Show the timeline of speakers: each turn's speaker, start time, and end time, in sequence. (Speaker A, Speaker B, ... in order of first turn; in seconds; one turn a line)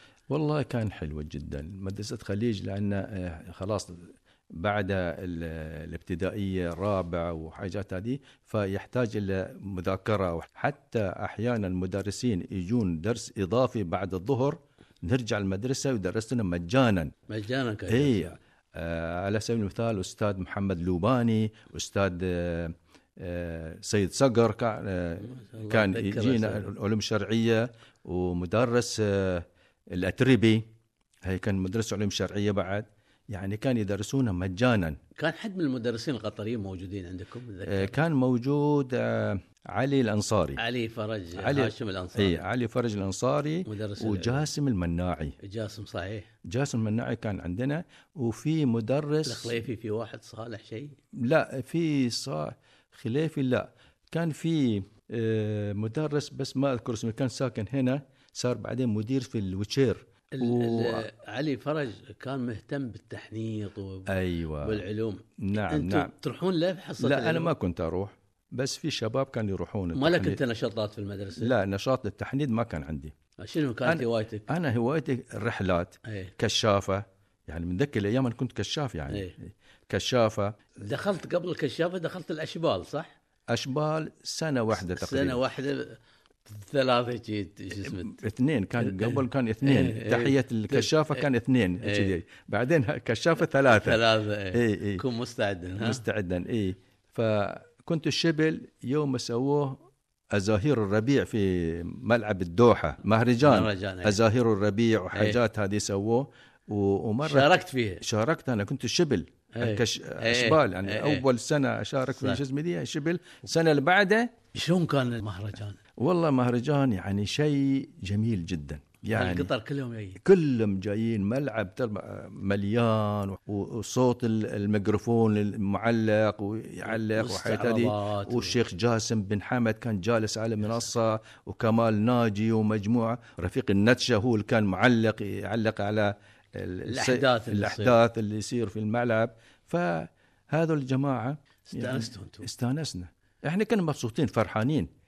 Speaker A: 0.3-17.1
Speaker B: 17.3-18.4
Speaker A: 17.9-30.6
Speaker B: 25.2-26.7
Speaker A: 31.2-35.0
Speaker B: 35.2-37.9
Speaker A: 37.6-40.6
Speaker B: 40.6-42.4
Speaker A: 41.3-45.4
Speaker B: 43.6-44.5
Speaker B: 45.4-46.3
Speaker A: 46.4-49.5
Speaker B: 49.2-51.0
Speaker A: 51.1-61.1
Speaker B: 60.4-67.5
Speaker A: 64.1-64.8
Speaker A: 65.4-66.1
Speaker A: 67.0-70.4
Speaker B: 69.9-71.5
Speaker A: 71.4-73.1
Speaker B: 73.4-74.5
Speaker A: 73.8-80.6
Speaker B: 76.0-76.3
Speaker B: 79.1-79.3
Speaker B: 80.8-83.1
Speaker A: 83.5-85.4
Speaker B: 84.7-88.2
Speaker A: 87.7-94.0
Speaker B: 88.8-91.2
Speaker B: 91.8-92.2
Speaker B: 93.6-96.0
Speaker A: 94.5-95.0
Speaker A: 95.8-99.8
Speaker A: 100.3-114.3
Speaker B: 103.4-104.2
Speaker B: 107.2-108.0
Speaker B: 109.5-111.2
Speaker B: 112.2-112.4
Speaker B: 114.5-115.8
Speaker A: 116.0-119.5
Speaker B: 119.1-120.2
Speaker A: 120.2-144.9
Speaker B: 126.8-128.6
Speaker B: 136.9-138.0
Speaker B: 141.7-142.5